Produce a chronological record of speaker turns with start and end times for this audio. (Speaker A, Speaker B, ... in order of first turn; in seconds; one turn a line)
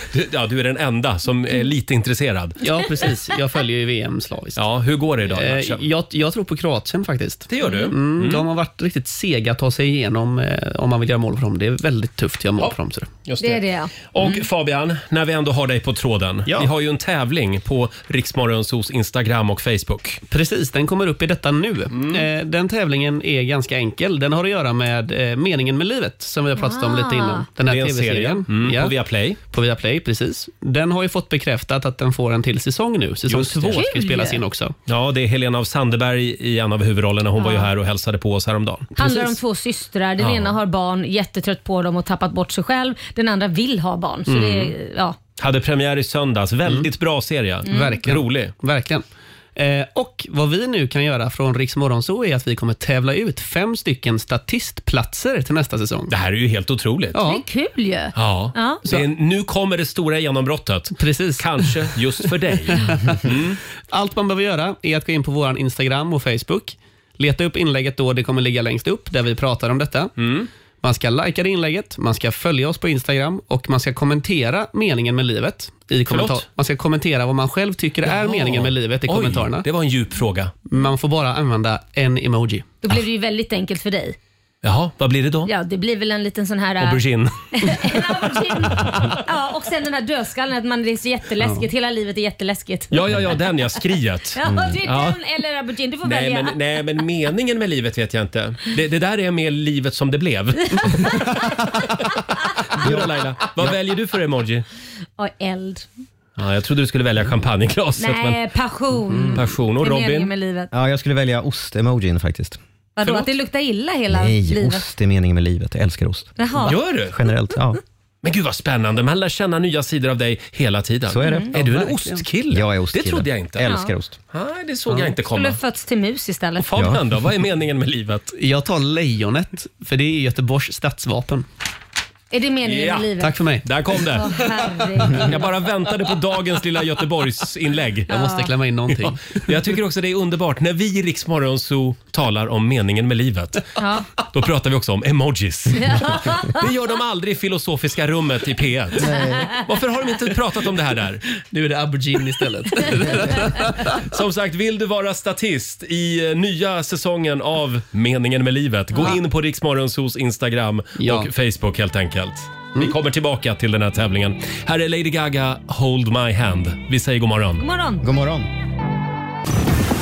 Speaker A: 0.1-2.6
Speaker B: 2.6-4.6
Speaker A: 4.5-5.8
Speaker B: 5.2-13.2
Speaker A: 7.5-8.4
Speaker C: 7.6-7.9
Speaker A: 13.2-20.2
Speaker C: 13.4-14.4
Speaker B: 20.3-28.9
Speaker A: 21.9-22.2
Speaker C: 26.6-27.4
Speaker A: 27.6-29.4
Speaker B: 29.5-34.7
Speaker A: 33.3-33.9
Speaker C: 33.7-34.4
Speaker A: 34.9-39.3
Speaker C: 37.4-37.7
Speaker C: 39.0-45.2
Speaker A: 40.2-40.5
Speaker A: 44.3-44.7
Speaker A: 45.4-48.5
Speaker B: 47.6-49.0
Speaker C: 47.7-48.0
Speaker B: 49.5-56.1
Speaker A: 56.1-57.2
Speaker B: 57.1-57.4
Speaker C: 57.2-58.8
Speaker A: 58.1-63.6
Speaker B: 60.9-62.0
Speaker B: 62.7-63.3
Speaker B: 63.9-70.1
Speaker A: 70.2-70.5
Speaker B: 70.8-79.7
Speaker A: 76.0-76.4
Speaker A: 78.1-80.5
Speaker B: 80.7-82.7
Speaker C: 82.8-84.2
Speaker A: 84.6-85.5
Speaker C: 85.5-93.4
Speaker A: 86.8-89.2
Speaker A: 92.9-95.2
Speaker C: 94.3-96.6
Speaker D: 94.4-94.8
Speaker A: 96.0-102.2
Speaker C: 100.8-101.7
Speaker A: 102.7-104.6
Speaker D: 102.8-103.1
Speaker C: 105.2-105.9
Speaker A: 106.4-108.4
Speaker C: 108.0-110.7
Speaker B: 109.1-109.4
Speaker A: 109.3-110.3
Speaker D: 110.7-112.6
Speaker C: 113.0-114.9
Speaker A: 113.0-113.3
Speaker D: 114.1-117.8
Speaker C: 116.4-116.8
Speaker A: 116.6-117.2
Speaker A: 118.2-123.7
Speaker D: 121.0-121.5
Speaker C: 121.2-121.5
Speaker B: 121.5-122.2
Speaker D: 122.5-124.2
Speaker C: 123.6-123.9
Speaker A: 124.3-125.6
Speaker C: 125.3-126.6
Speaker A: 126.6-128.3
Speaker D: 126.8-127.0
Speaker B: 128.3-131.4
Speaker C: 132.3-133.4
Speaker A: 132.6-138.1
Speaker B: 133.2-133.7
Speaker C: 134.1-135.6
Speaker B: 138.1-139.5
Speaker C: 138.1-138.5
Speaker A: 138.9-151.2
Speaker C: 143.8-144.1
Speaker C: 145.8-146.6
Speaker B: 149.1-149.4
Speaker B: 151.5-154.0
Speaker A: 152.9-167.6
Speaker B: 161.0-161.3
Speaker C: 167.6-168.1
Speaker D: 168.0-168.5